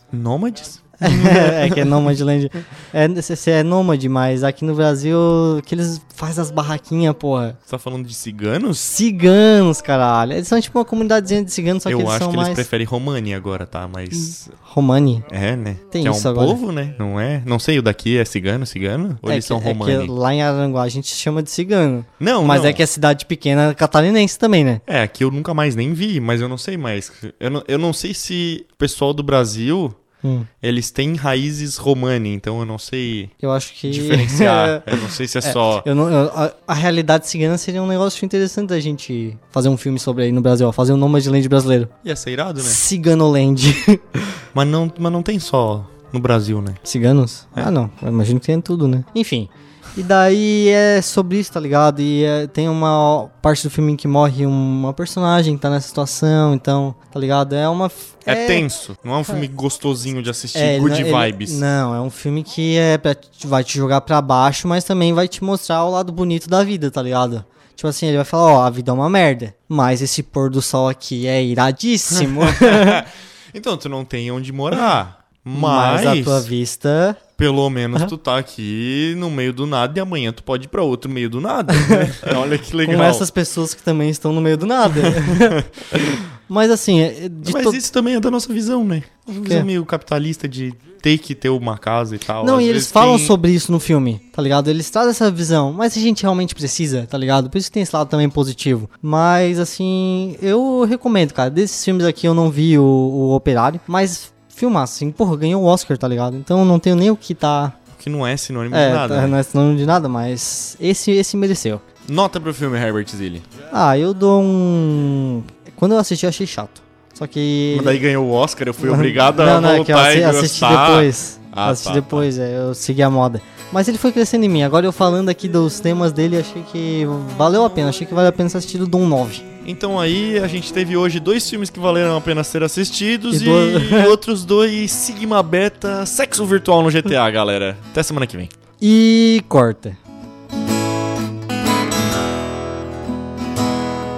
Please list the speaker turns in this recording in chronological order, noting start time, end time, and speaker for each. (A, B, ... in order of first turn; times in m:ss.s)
0:00.1-0:02.0 A
0:01.0-0:07.6 B
0:07.7-0:09.0 A
0:08.9-0:12.7 B
0:11.9-0:14.6 A
0:14.1-0:15.2 B
0:15.3-0:20.1 A
0:15.9-0:16.6 B
0:19.2-0:24.8 B
0:22.2-0:22.8 A
0:24.9-0:30.0 A
0:30.2-0:30.5 B
0:30.6-0:33.3 A
0:33.4-0:41.9 B
0:33.9-0:35.9 A
0:42.0-0:42.8 A
0:42.6-0:44.2 B
0:44.5-0:46.8 A
0:46.8-0:58.7 B
0:58.3-1:01.6 A
1:00.6-1:13.0 B
1:12.2-1:16.5 A
1:15.5-1:17.2 B
1:17.4-1:23.3 A
1:21.7-1:22.1 B
1:22.8-1:25.6 B
1:24.9-1:26.2 A
1:26.5-1:27.8 B
1:27.4-1:33.4 A
1:32.4-1:47.8 B
1:47.9-1:49.4 A
1:48.7-1:51.8 B
1:52.0-1:53.5 A
1:53.7-1:58.0 B
1:57.7-2:02.3 A
1:58.8-2:09.5 B
2:09.6-2:18.5 A
2:13.3-2:14.2 B
2:18.8-2:20.0 B